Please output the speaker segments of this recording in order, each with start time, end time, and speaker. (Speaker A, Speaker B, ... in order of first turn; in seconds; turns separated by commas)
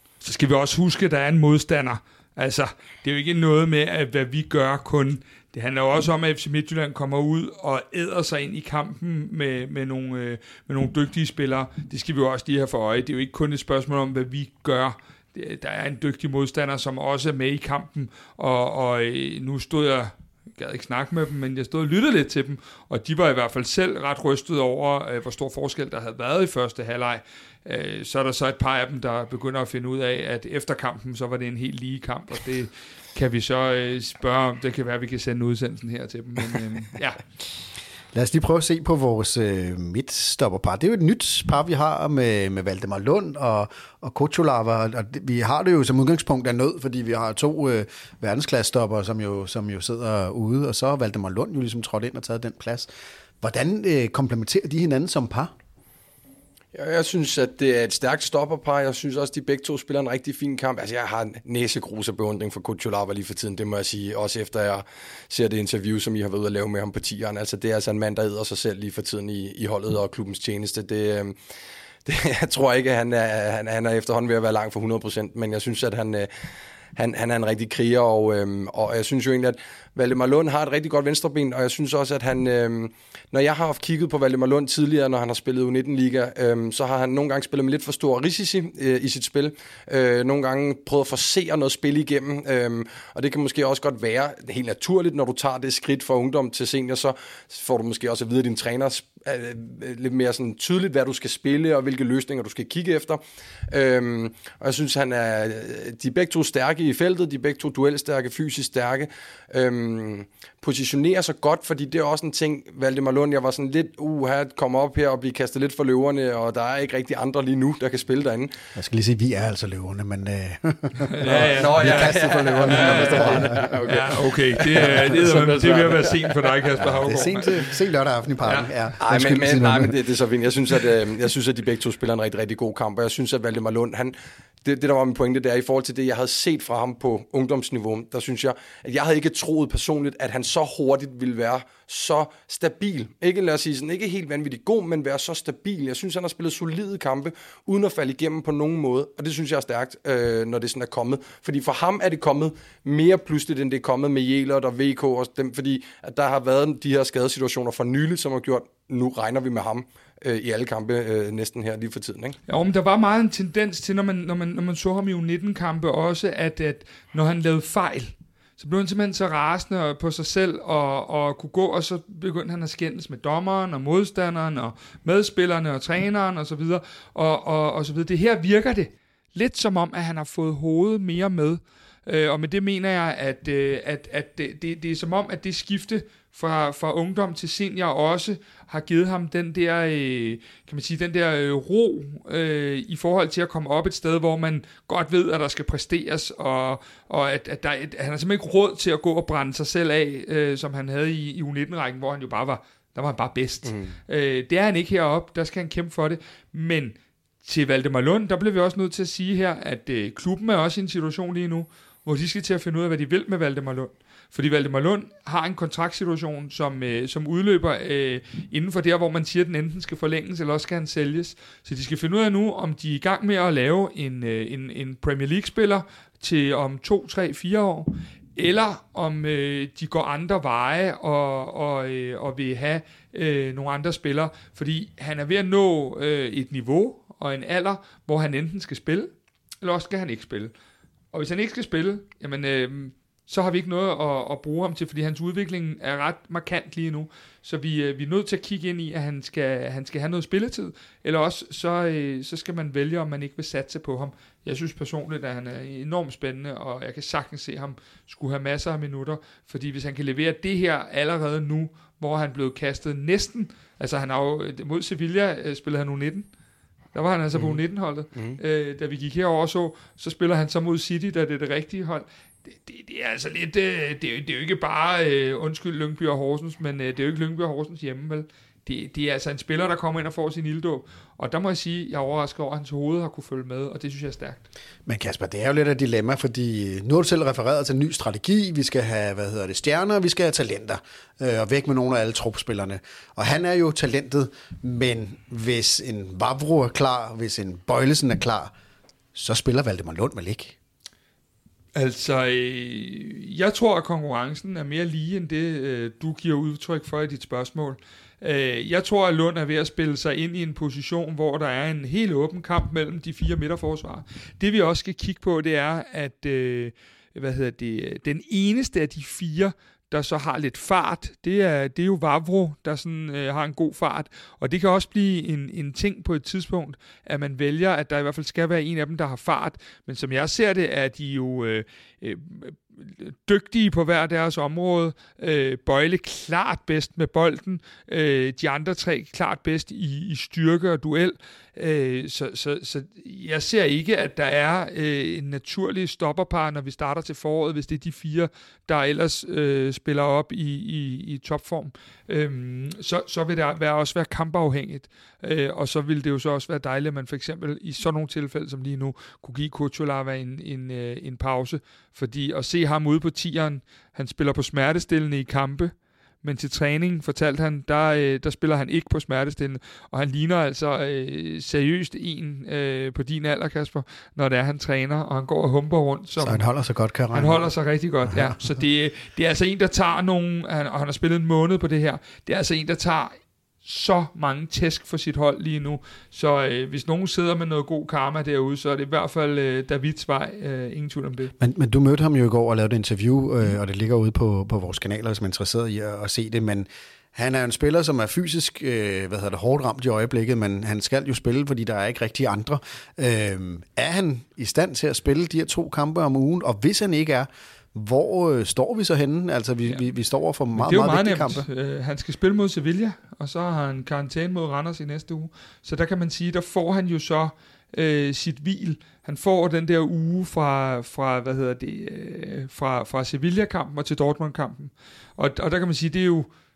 Speaker A: 0.2-37.2, Speaker B: 38.1-52.9, Speaker B: 53.4-55.5, Speaker C: 56.7-71.3, Speaker C: 72.0-76.3, Speaker C: 77.0-103.2, Speaker C: 103.7-118.5, Speaker B: 118.7-123.8, Speaker A: 121.1-127.6, Speaker C: 121.3-126.1, Speaker B: 124.6-125.2, Speaker B: 126.8-129.9, Speaker C: 129.0-162.4, Speaker A: 162.5-240.5, Speaker C: 203.7-203.9, Speaker A: 241.1-266.3, Speaker A: 266.9-284.4, Speaker B: 284.9-298.5, Speaker B: 299.1-300.6, Speaker A: 301.7-376.4, Speaker B: 376.2-377.5, Speaker A: 377.1-391.3, Speaker B: 378.0-378.4, Speaker B: 391.4-411.4, Speaker A: 410.6-426.3